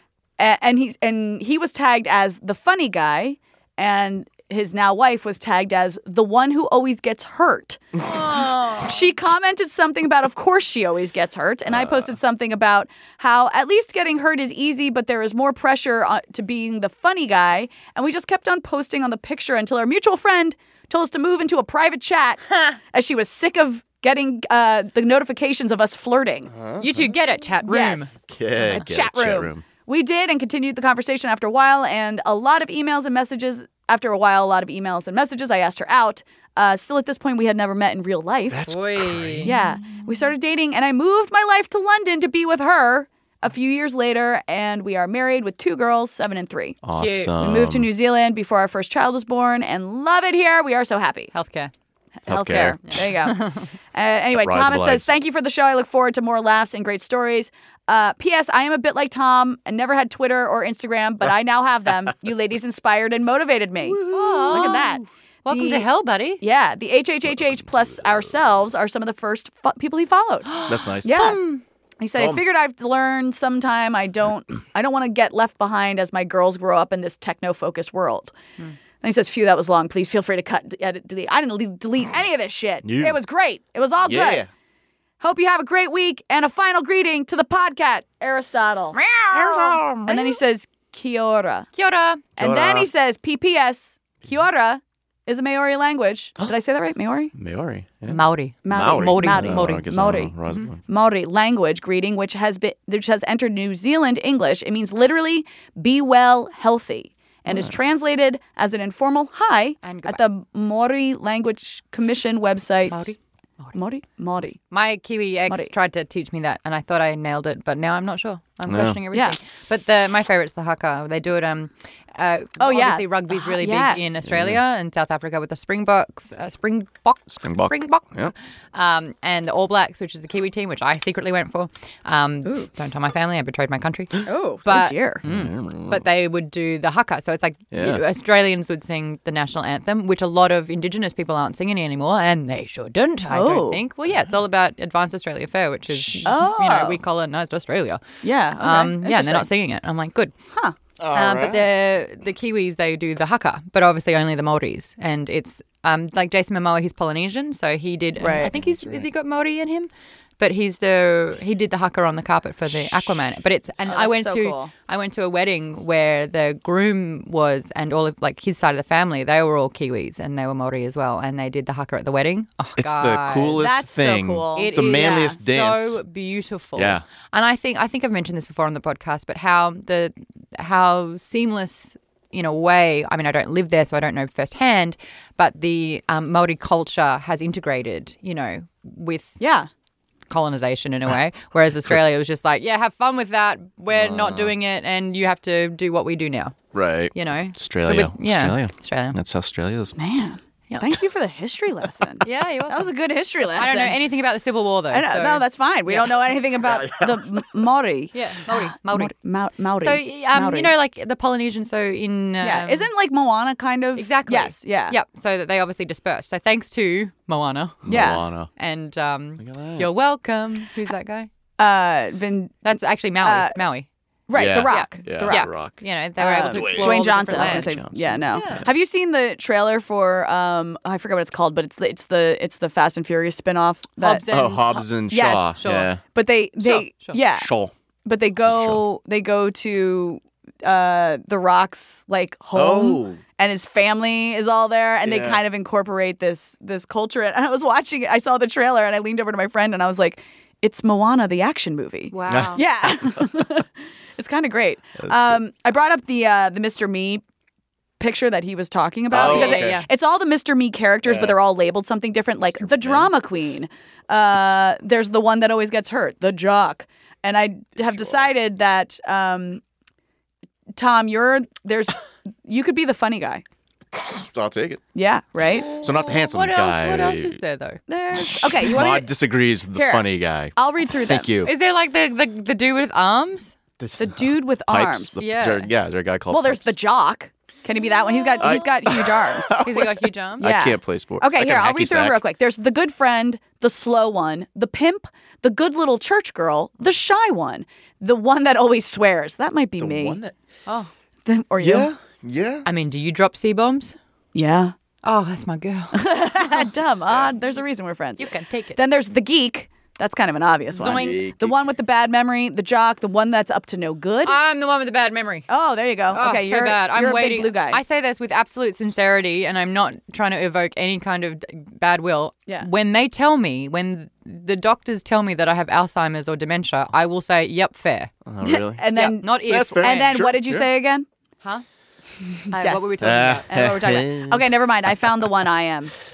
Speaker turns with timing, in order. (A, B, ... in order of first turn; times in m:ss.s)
0:00.4-0:26.5 A
0:08.0-0:09.0 B
0:26.5-0:27.1 C
0:26.8-0:28.1 B
0:27.6-0:28.1 A
0:28.3-0:29.6 C
0:28.6-0:38.7 A
0:38.5-0:39.6 C
0:38.7-0:39.5 B
0:39.4-0:46.8 A
0:46.8-0:47.9 C
0:46.9-0:47.3 B
0:47.4-0:51.3 A
0:51.3-0:51.7 B
0:52.3-1:05.9 A
0:52.3-0:53.1 C
0:52.9-0:53.6 B
0:54.3-0:55.1 C
1:03.8-1:06.4 B
1:06.4-1:11.4 A
1:10.5-1:11.6 B
1:10.7-1:11.3 C
1:12.0-1:18.3 A
1:12.2-1:12.4 C
1:19.0-1:24.5 A
1:22.8-1:23.2 C
1:24.0-1:24.5 C
1:25.2-1:31.7 A
1:28.9-1:29.8 B
1:29.3-1:30.4 C
1:31.8-1:32.2 B
1:32.4-1:37.3 A
1:32.4-1:32.9 C
1:37.4-1:40.8 C
1:38.1-1:39.8 B
1:38.6-1:40.4 A
1:40.9-1:53.1 A
1:47.5-1:47.8 C
1:49.8-1:50.2 B
1:52.9-1:53.8 B
1:53.8-1:54.6 A
1:54.7-2:28.0 B
1:58.7-1:59.0 C
2:02.6-2:04.2 A
2:04.2-2:04.6 C
2:07.4-2:08.3 C
2:14.2-2:15.2 A
2:15.2-2:16.0 C
2:17.7-2:18.0 C
2:23.3-2:23.8 A
2:26.2-2:27.0 A
2:28.2-2:29.5 A
2:28.6-2:30.3 B
2:31.0-2:31.7 C
2:31.1-2:53.7 B
2:38.2-2:38.5 A
2:38.4-2:39.1 C
2:43.9-2:44.7 A
2:52.8-2:56.0 C
2:53.6-2:55.4 A
2:54.6-3:09.4 B
2:56.8-2:57.0 C
3:09.4-3:09.7 A
3:10.3-3:16.6 B
3:13.9-3:14.6 C
3:16.7-3:20.0 C
3:17.1-3:19.2 B
3:20.0-3:24.0 A
3:20.7-3:21.0 B
3:22.2-3:22.9 B
3:23.6-3:26.2 B
3:24.9-3:30.8 A
3:26.6-3:27.5 C
3:28.1-3:29.1 B
3:29.8-3:32.9 B
3:32.4-3:35.0 A
3:34.0-3:37.8 B
3:37.9-3:38.5 C
3:37.9-3:38.2 A
3:38.6-3:41.3 B
3:39.4-3:39.9 C
3:41.6-3:42.6 A
3:42.6-3:43.9 B
3:43.2-3:43.6 A
3:44.3-3:45.4 A
3:44.4-3:45.8 C
3:44.6-3:48.7 B
3:46.2-3:54.3 A
3:46.5-3:48.7 C
3:54.0-3:54.9 B
3:54.3-3:56.0 C
3:55.1-3:57.5 A
3:55.6-3:55.9 B
3:56.6-3:57.2 B
3:57.3-3:57.7 C
3:58.0-4:17.2 A
3:58.4-3:58.8 C
4:02.6-4:03.2 C
4:05.0-4:05.4 C
4:12.1-4:12.6 B
4:12.3-4:13.5 C
4:15.0-4:15.4 C
4:18.0-4:29.6 A
4:19.1-4:19.8 C
4:19.1-4:19.9 B
4:21.1-4:21.4 C
4:22.6-4:23.1 C
4:27.9-4:28.2 C
4:30.8-4:33.4 A
4:33.9-4:34.8 C
4:35.0-4:35.7 A
4:35.6-4:37.4 C
4:35.6-4:37.8 B
4:37.9-4:39.1 A
4:38.1-4:41.5 C
4:39.7-4:41.3 A
4:41.4-4:43.6 B
4:43.8-4:46.7 C
4:44.0-4:45.2 A
4:45.2-4:45.7 B
4:46.3-4:49.6 A
4:48.3-4:48.7 B
4:48.4-4:52.2 C
4:49.6-4:50.5 B
4:50.4-5:00.2 A
4:59.8-5:00.4 C
5:01.3-5:01.9 A
5:01.6-5:02.7 C
5:02.6-5:04.0 B
5:04.4-5:04.7 A
5:05.0-5:06.7 B
5:05.9-5:14.4 A
5:07.1-5:07.3 C
5:08.2-5:08.8 B
5:10.7-5:11.6 C
5:10.7-5:11.3 B
5:14.2-5:15.5 B
5:15.5-5:17.8 A
5:16.1-5:28.1 B
5:28.3-5:28.9 C
5:28.4-5:31.1 A
5:28.9-5:29.9 B
5:29.4-5:30.7 C
5:32.5-5:33.5 B
5:32.5-5:36.0 A
5:33.0-5:35.2 C